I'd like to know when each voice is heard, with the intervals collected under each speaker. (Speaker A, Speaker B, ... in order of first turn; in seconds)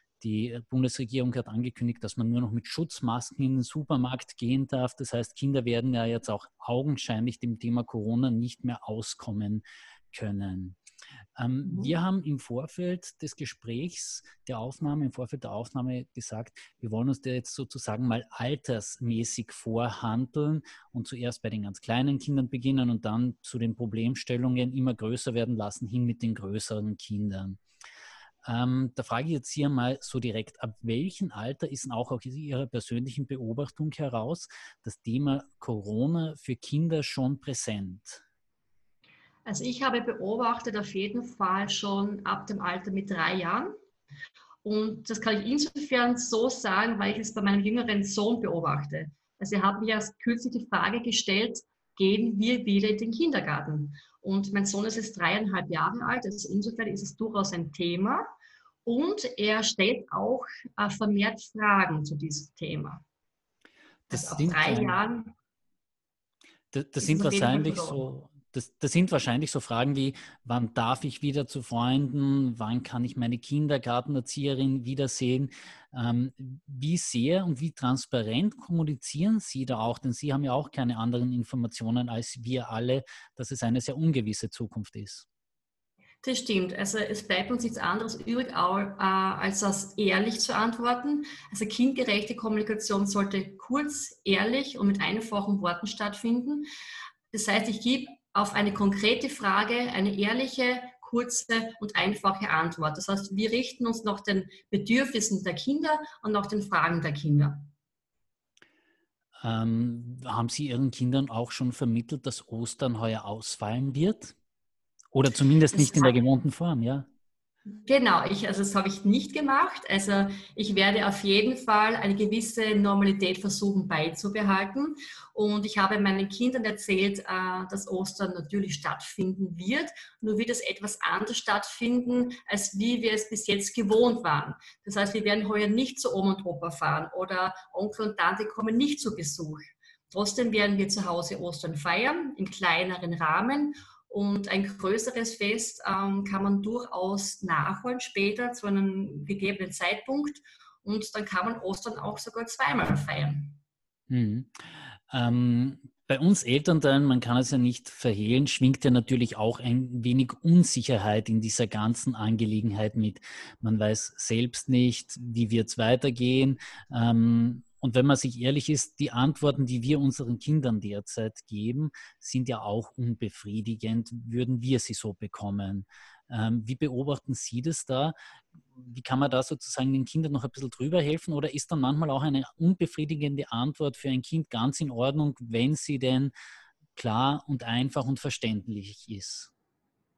Speaker A: 0.2-10.8, 11.4-27.6, 28.4-38.2, 64.1-65.0, 66.7-85.3, 109.4-114.3, 115.1-117.1, 154.1-154.6, 155.1-178.2, 178.7-186.3, 187.0-189.5
Speaker B: 11.7-11.9, 39.5-43.7, 44.6-58.2, 58.9-63.0, 64.1-65.3, 67.0-68.0, 86.2-96.7, 97.3-107.7, 115.7-116.2, 117.9-153.6